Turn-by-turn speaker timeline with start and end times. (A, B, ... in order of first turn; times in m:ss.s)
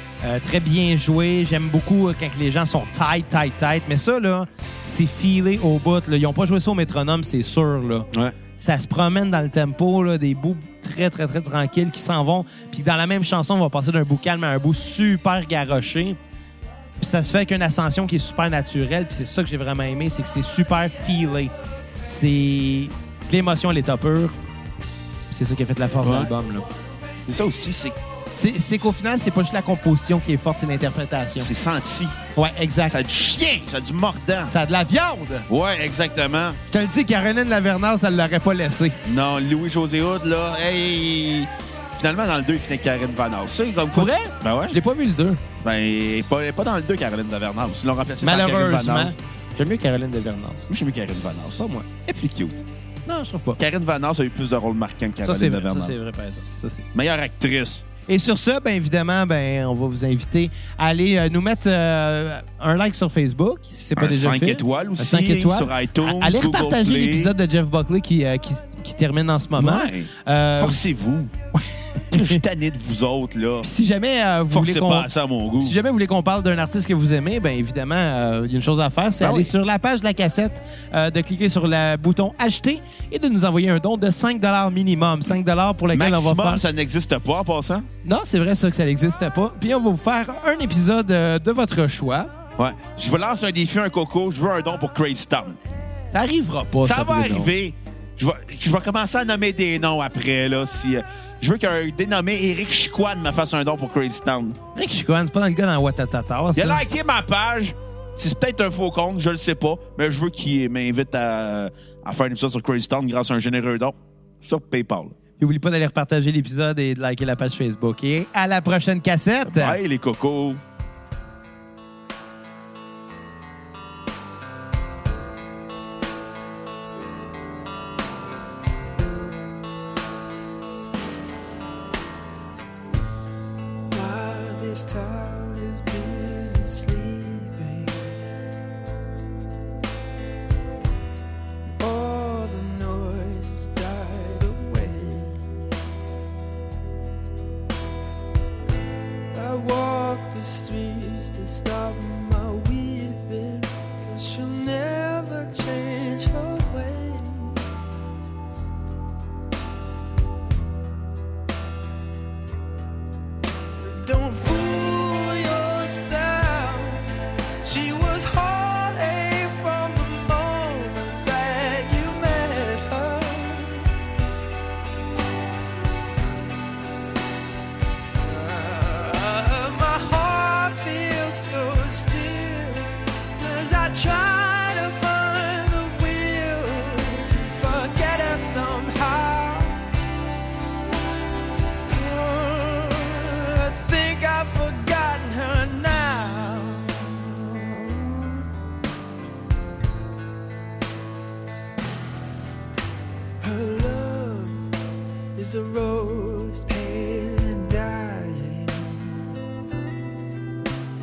0:00.2-0:16.2 A
0:17.0-0:21.5 A
0:22.1-0:24.4 A
0:25.3-0:26.7 A
0:26.0-0:26.3 B
0:27.3-0:28.0 B
0:28.4-0:31.5 A
0:31.4-0:32.2 B
0:32.4-0:33.0 A
0:32.9-0:34.5 B
0:34.5-0:35.5 A
0:35.5-0:36.6 B
0:36.7-0:39.0 A
0:39.0-0:44.8 B
0:43.9-0:45.4 A
0:45.6-0:49.1 B
0:48.2-0:50.7 A
0:50.7-0:52.7 B
0:51.6-0:51.9 A
0:53.1-0:53.6 A
0:53.6-0:56.0 B
0:55.2-0:56.9 A
0:56.9-0:57.8 B
0:58.1-1:10.8 A
1:04.0-1:07.3 B
1:09.6-1:11.3 B
1:11.6-1:12.4 A
1:12.1-1:13.7 B
1:13.6-1:15.1 A
1:14.5-1:15.8 B
1:15.6-1:26.6 A
1:19.2-1:19.5 B
1:25.9-1:27.9 B
1:28.0-1:32.3 A
1:32.6-1:35.6 B
1:36.1-1:37.5 A
1:36.8-1:44.6 B
1:44.8-1:46.8 A
1:46.6-1:55.2 B
1:55.4-1:59.8 A
1:59.4-2:00.6 B
2:13.9-2:18.1 C
2:21.7-2:25.4 C
2:29.3-2:37.7 C
2:43.8-2:47.1 C
2:47.6-2:53.9 C
2:58.2-3:09.8 C
3:11.9-3:18.5 C
3:23.4-3:24.7 C
3:25.4-3:29.3 C